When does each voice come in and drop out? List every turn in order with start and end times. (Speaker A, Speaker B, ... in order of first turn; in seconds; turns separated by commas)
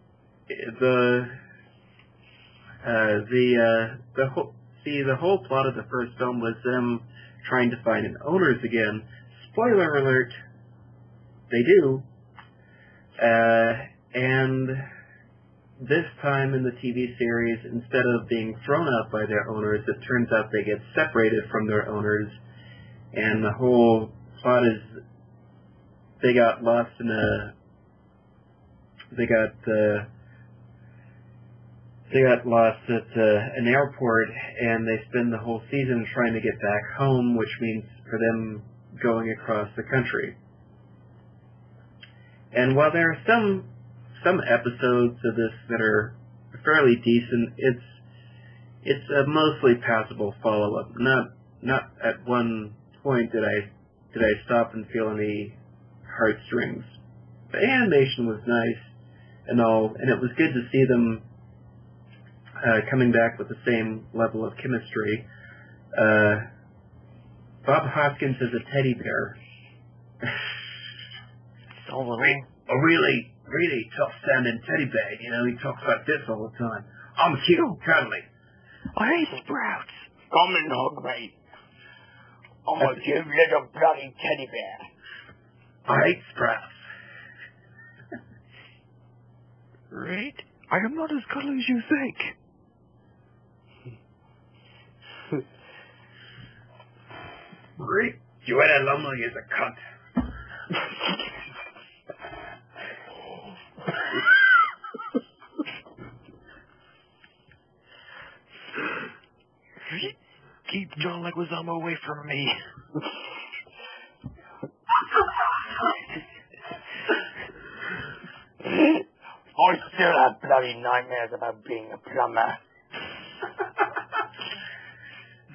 Speaker A: 0.5-1.4, Speaker A: 2.8-10.3, Speaker A: 11.5-12.1, Speaker A: 13.2-14.9, Speaker A: 15.8-22.4, Speaker A: 23.1-25.0, Speaker A: 26.2-27.5, Speaker A: 29.1-30.1, Speaker A: 32.1-40.4, Speaker A: 42.5-48.0, Speaker A: 48.8-57.0, Speaker A: 57.5-58.9, Speaker A: 59.5-61.2, Speaker A: 62.6-65.3, Speaker A: 65.9-66.5, Speaker A: 67.6-69.4, Speaker B: 71.7-72.5, Speaker A: 72.2-78.2, Speaker B: 78.9-80.0, Speaker C: 80.3-81.3, Speaker C: 82.7-84.8, Speaker A: 85.8-86.8, Speaker B: 89.9-92.3, Speaker A: 97.8-99.8, Speaker B: 109.9-110.1, Speaker B: 110.7-112.5, Speaker C: 119.5-122.6